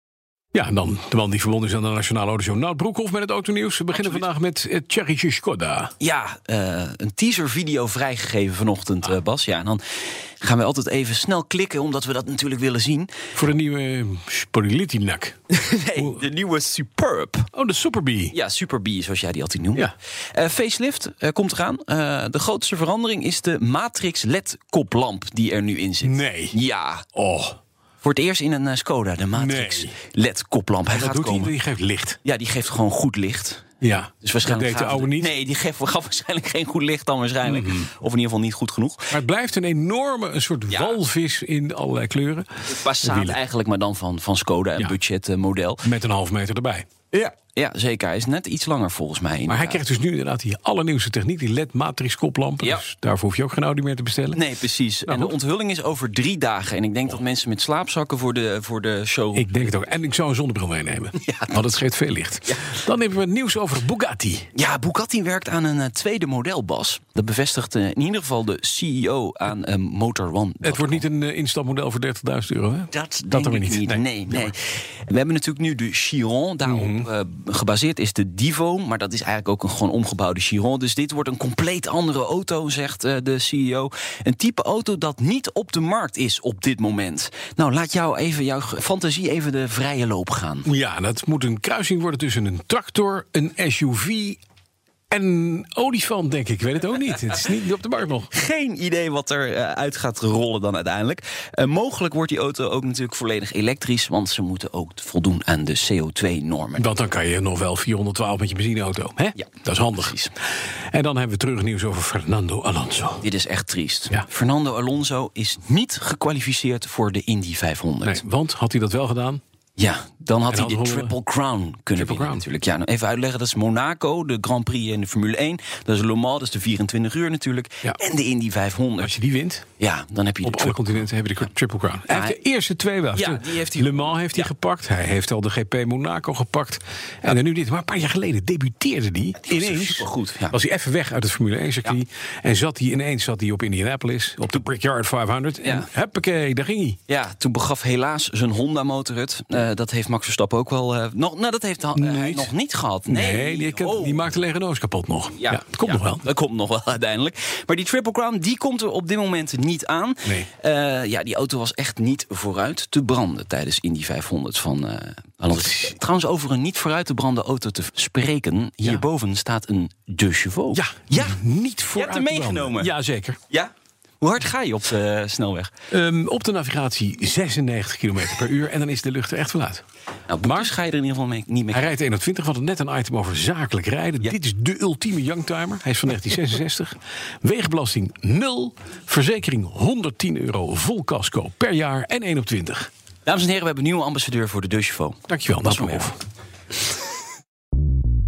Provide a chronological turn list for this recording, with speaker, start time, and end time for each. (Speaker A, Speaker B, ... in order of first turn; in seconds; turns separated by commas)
Speaker A: 0.5-5.9, Speaker B: 3.9-4.2, Speaker B: 6.0-9.8, Speaker B: 10.4-13.1, Speaker A: 13.3-15.4, Speaker B: 15.5-17.5, Speaker A: 17.5-18.4, Speaker B: 18.3-27.1, Speaker A: 26.0-26.6, Speaker A: 27.1-27.6, Speaker B: 28.0-31.5, Speaker A: 29.3-29.9, Speaker A: 30.9-32.2, Speaker B: 32.2-33.6, Speaker A: 33.8-35.3, Speaker B: 34.2-39.2, Speaker A: 37.4-37.9, Speaker A: 39.1-43.4, Speaker B: 40.7-41.0, Speaker B: 42.7-45.9, Speaker A: 45.8-46.9, Speaker B: 47.1-49.8, Speaker A: 49.5-54.4, Speaker B: 54.3-59.5, Speaker A: 55.1-55.3, Speaker A: 59.3-64.5, Speaker B: 61.2-61.6, Speaker B: 62.5-62.8, Speaker B: 64.5-71.0, Speaker A: 70.6-74.5, Speaker B: 72.9-74.6, Speaker B: 75.1-90.7, Speaker A: 76.7-77.1, Speaker A: 90.7-94.4, Speaker A: 95.1-98.3, Speaker B: 98.3-106.9, Speaker A: 106.8-110.2, Speaker B: 109.3-110.3, Speaker A: 110.9-113.2, Speaker B: 113.2-118.2, Speaker A: 118.0-119.4, Speaker B: 119.8-129.2, Speaker A: 120.5-121.1, Speaker A: 122.0-122.4, Speaker A: 129.0-129.7, Speaker B: 129.8-131.5, Speaker A: 130.4-147.0, Speaker B: 132.1-132.4, Speaker B: 133.2-134.5, Speaker B: 139.4-140.6, Speaker B: 145.6-145.9, Speaker B: 147.1-154.3, Speaker A: 151.9-152.5, Speaker A: 153.1-156.2, Speaker B: 155.4-171.4, Speaker A: 170.7-173.4, Speaker B: 171.9-172.9, Speaker B: 173.5-175.7, Speaker A: 175.9-179.8, Speaker B: 180.3-181.9, Speaker A: 180.4-180.7, Speaker A: 181.7-192.9, Speaker B: 193.3-196.1, Speaker A: 195.3-196.2